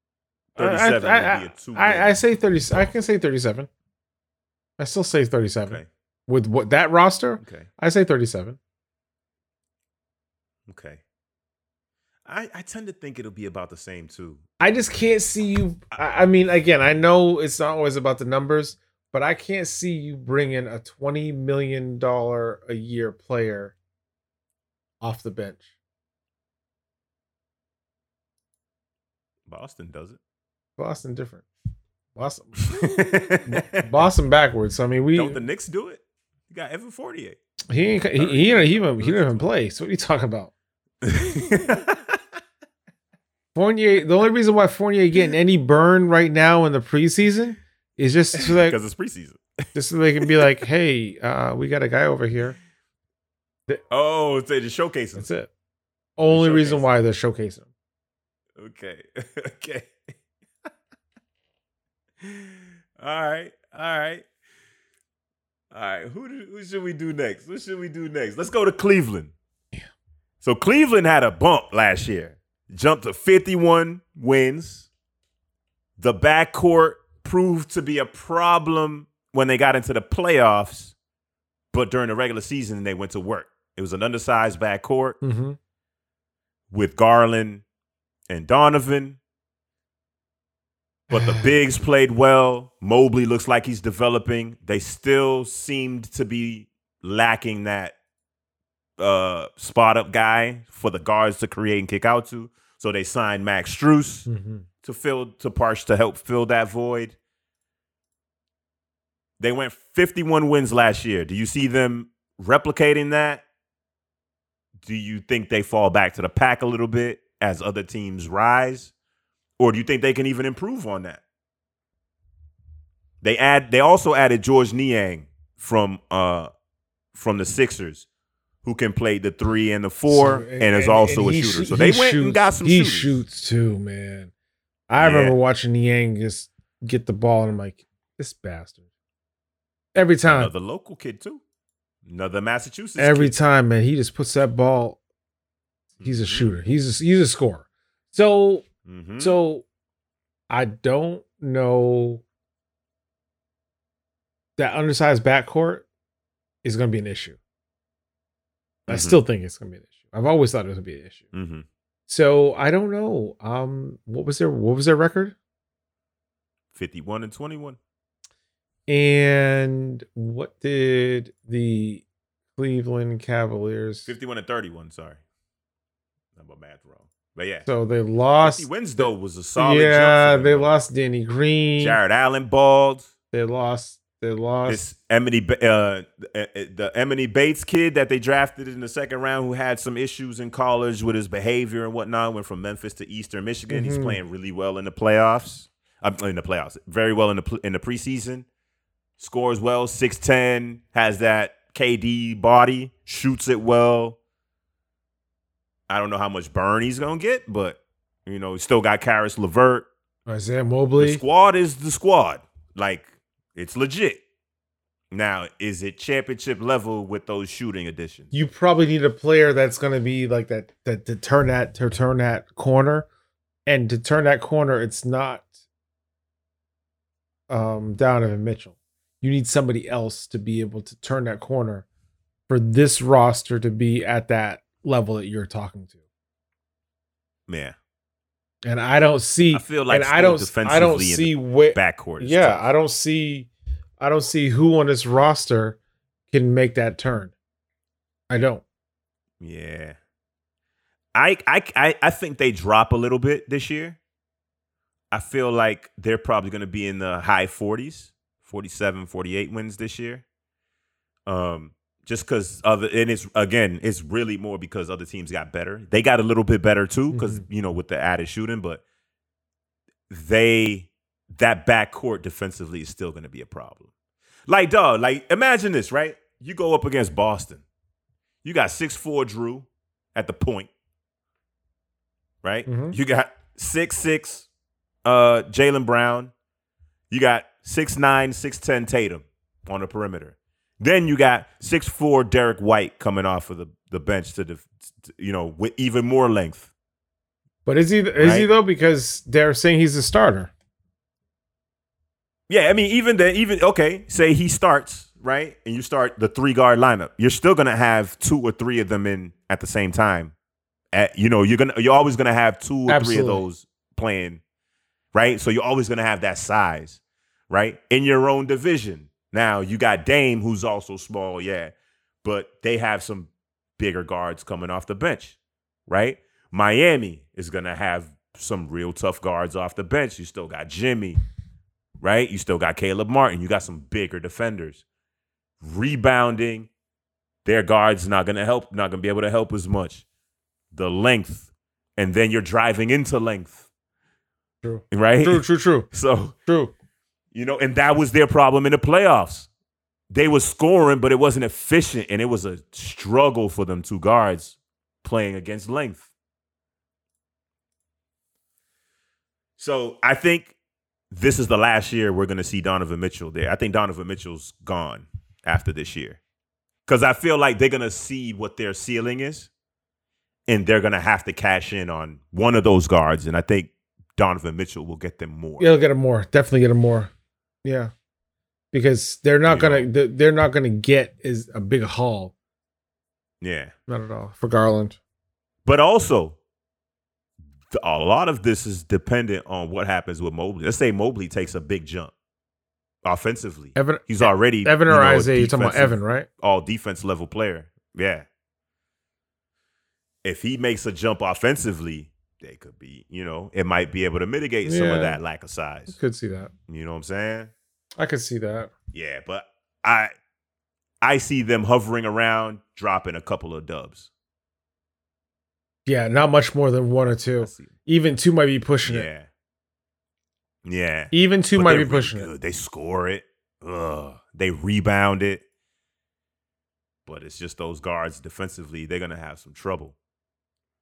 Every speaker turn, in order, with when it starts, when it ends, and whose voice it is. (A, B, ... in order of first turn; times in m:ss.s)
0:00.6-0:02.2 A
0:00.6-0:03.7 B
0:04.8-0:08.6 B
0:07.4-0:07.7 A
0:10.7-0:11.0 A
0:12.2-0:14.4 A
0:14.6-0:23.7 B
0:25.0-0:25.7 B
0:29.5-0:30.2 A
0:30.8-0:31.4 B
0:32.2-0:35.4 B
0:32.7-0:33.9 A
0:35.1-0:37.4 A
0:37.7-0:40.5 B
0:38.1-0:39.5 A
0:41.0-0:42.2 A
0:43.5-0:48.8 B
0:48.3-0:49.4 A
0:49.7-0:52.6 B
0:50.2-0:50.6 A
0:53.9-0:55.3 A
0:55.2-0:55.5 B
0:56.2-0:57.7 B
0:56.3-0:56.9 A
0:58.6-0:59.9 A
1:02.2-1:04.2 A
1:05.7-1:09.3 A
1:10.4-1:14.9 A
1:16.0-1:20.9 A
1:21.7-1:25.2 A
1:25.2-1:25.6 B
1:26.7-1:27.6 A
1:28.3-1:29.2 A
1:31.1-1:31.5 B
1:31.1-1:37.9 A
1:39.0-1:44.3 A
1:44.3-1:44.6 B
1:44.8-1:47.2 A
1:49.4-1:53.4 A
1:54.8-1:58.9 A
1:59.6-2:01.2 A
2:03.2-2:06.5 A
2:07.1-2:08.0 A
2:08.6-2:13.2 A
2:10.1-2:14.3 B
2:14.9-2:18.8 B
2:15.0-2:15.4 A
2:19.9-2:20.5 B
2:20.3-2:21.4 A
2:22.0-2:23.4 A
2:23.0-2:25.0 B
2:26.0-2:28.6 B
2:26.0-2:26.5 A
2:28.8-2:29.3 A
2:29.2-2:29.6 B
2:30.5-2:32.2 B
2:34.6-2:35.9 B
2:36.6-2:37.4 B
2:38.9-2:39.2 A
2:38.9-2:41.2 B
2:41.3-2:41.6 A
2:42.1-2:45.4 B
2:46.7-2:47.8 A
2:48.9-2:52.0 B
2:52.5-2:54.1 B
2:54.0-2:55.2 A
2:56.4-2:57.7 A
2:57.6-3:02.0 B
2:58.4-3:00.7 A
3:01.8-3:03.1 A
3:03.3-3:04.8 B
3:04.6-3:18.4 A
3:13.7-3:14.2 B
3:19.2-3:24.2 A
3:25.9-3:29.9 A
3:30.2-3:31.2 B
3:31.0-3:34.2 A
3:35.1-3:38.3 A
3:38.3-3:43.1 B
3:43.6-3:45.5 B
3:47.5-3:51.8 B
3:52.5-3:55.9 B
3:57.5-3:57.7 A
3:58.6-4:05.8 B
3:59.5-4:02.6 A
4:06.3-4:07.3 B
4:08.3-4:08.6 B
4:09.4-4:10.0 A
4:11.1-4:14.0 A
4:15.1-4:20.2 A
4:21.3-4:28.8 A
4:27.1-4:27.4 B
4:30.1-4:33.9 A
4:34.5-4:37.6 A
4:38.4-4:40.7 A
4:42.4-4:44.5 A
4:42.6-4:43.0 B
4:45.0-4:46.3 A
4:47.1-4:56.7 A
4:57.6-5:00.5 B
4:58.2-4:58.5 A
5:02.5-5:10.3 A
5:10.9-5:14.4 A
5:12.9-5:13.4 B
5:15.1-5:31.2 A
5:32.0-5:34.8 A
5:35.6-5:36.7 A
5:37.4-5:40.0 A
5:40.7-5:43.6 A
5:44.6-5:45.9 B
5:44.9-5:46.3 A
5:46.4-5:46.7 B
5:47.3-5:49.5 A
5:50.1-5:56.1 A
5:59.6-6:00.5 A
6:01.1-6:06.2 A
6:06.8-6:09.5 A
6:10.5-6:15.6 A
6:15.6-6:17.1 B
6:17.6-6:17.9 B
6:18.7-6:22.3 B
6:19.4-6:19.9 A
6:23.4-6:23.7 A
6:23.9-6:25.0 B
6:25.6-6:26.4 A
6:27.7-6:32.1 A
6:33.0-6:38.2 A
6:33.8-6:36.3 B
6:40.2-6:46.0 A
6:44.6-6:45.2 B
6:45.9-6:46.5 B
6:46.7-6:47.5 A
6:48.0-6:48.7 B
6:48.9-6:50.1 A
6:51.0-6:54.1 A
6:55.8-6:59.1 B
6:57.4-6:57.7 A
6:58.8-6:59.3 A
7:00.6-7:05.4 A
7:01.1-7:02.3 B
7:07.0-7:10.0 A